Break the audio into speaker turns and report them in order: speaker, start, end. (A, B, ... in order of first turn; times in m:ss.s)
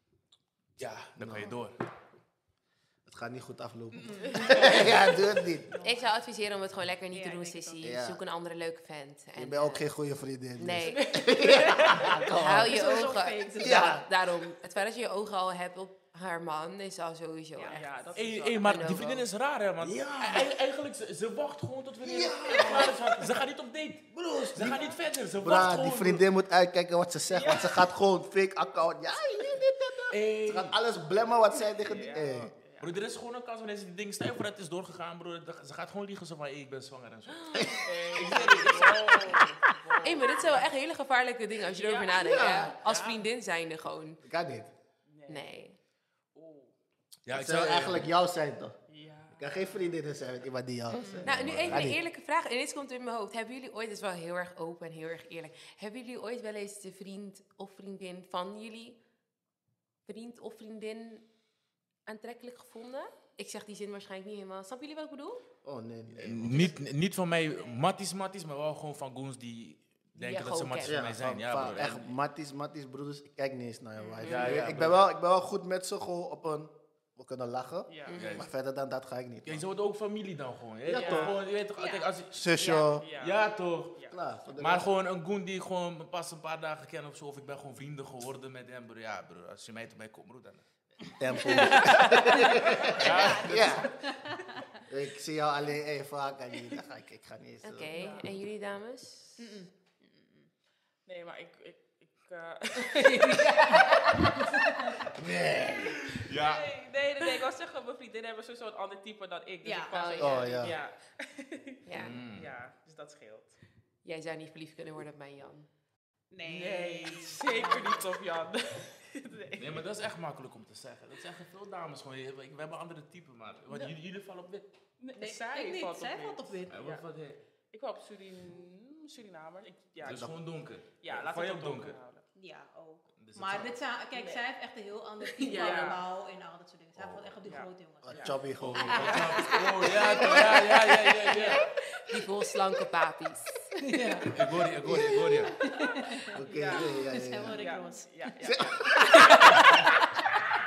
0:00.8-0:01.7 A
0:01.2-0:01.5 B
0:03.0-0:05.7 B
0:03.9-0:05.0 C
0:04.4-0:04.8 D
0:05.7-0:06.1 C
0:05.8-0:09.8 E
0:07.1-0:07.9 C
0:07.8-0:08.2 B
0:09.4-0:12.8 B
0:10.6-0:18.0 E
0:10.9-0:12.1 D
0:12.6-0:14.0 C
0:13.6-0:14.0 B
0:17.6-0:17.8 C
0:17.7-0:18.8 D
0:18.1-0:26.2 A
0:18.6-0:19.2 E
0:19.8-0:20.5 B
0:22.0-0:23.3 B
0:24.1-0:24.9 B
0:24.6-0:25.0 D
0:25.4-0:32.5 B
0:27.3-0:27.8 D
0:30.1-0:30.8 A
0:31.8-0:32.9 D
0:32.8-0:39.4 A
0:37.5-0:37.9 B
0:37.8-0:40.7 D
0:40.0-0:44.2 E
0:41.7-0:43.2 D
0:42.1-0:42.8 B
0:44.2-0:44.7 B
0:45.1-0:45.5 D
0:45.3-0:45.8 E
0:46.3-0:46.7 D
0:47.2-0:48.1 A
0:47.3-0:48.8 B
0:48.9-0:49.9 D
0:49.3-0:52.0 B
0:50.9-0:59.0 E
0:50.9-0:51.3 C
0:51.2-0:51.9 A
1:00.0-1:01.2 E
1:02.1-1:05.4 E
1:05.6-1:06.7 B
1:06.1-1:12.1 A
1:10.2-1:11.0 E
1:10.8-1:19.6 B
1:14.2-1:14.6 E
1:14.2-1:15.1 A
1:17.9-1:18.2 D
1:18.1-1:18.5 E
1:18.1-1:18.5 A
1:19.4-1:22.4 A
1:20.8-1:21.4 B
1:20.9-1:21.4 D
1:22.3-1:23.0 B
1:22.6-1:22.9 E
1:22.9-1:23.4 D
1:23.1-1:24.0 A
1:24.1-1:24.9 B
1:24.6-1:30.6 A
1:31.2-1:33.9 B
1:31.6-1:34.8 C
1:31.7-1:32.4 A
1:32.9-1:33.9 A
1:34.9-1:37.9 B
1:37.6-1:39.5 E
1:37.9-1:38.3 D
1:38.0-1:38.2 C
1:39.4-1:40.5 C
1:41.0-1:43.6 D
1:42.9-1:45.0 C
1:43.3-1:44.4 E
1:45.0-1:46.2 B
1:46.2-1:46.7 A
1:46.3-1:53.6 D
1:49.6-1:50.2 C
1:49.9-1:50.7 E
1:50.2-1:50.8 B
1:51.8-1:52.2 E
1:51.9-1:52.5 A
1:54.0-1:55.7 E
1:56.3-1:58.1 C
1:56.4-1:59.8 D
1:59.6-2:04.7 A
2:05.0-2:07.0 D
2:05.2-2:06.8 C
2:06.7-2:07.4 A
2:07.7-2:10.3 D
2:10.0-2:12.0 A
2:11.0-2:12.2 D
2:12.4-2:19.6 C
2:13.2-2:13.7 A
2:14.2-2:14.4 D
2:15.4-2:16.0 D
2:17.4-2:18.4 D
2:18.0-2:19.5 B
2:18.6-2:21.6 A
2:19.0-2:19.4 D
2:19.6-2:20.8 E
2:21.2-2:21.6 D
2:21.3-2:24.3 E
2:23.8-2:24.4 C
2:24.3-2:25.6 A
2:24.8-2:25.3 B
2:25.4-2:28.1 C
2:26.3-2:27.6 B
2:26.5-2:29.4 D
2:28.4-2:29.5 B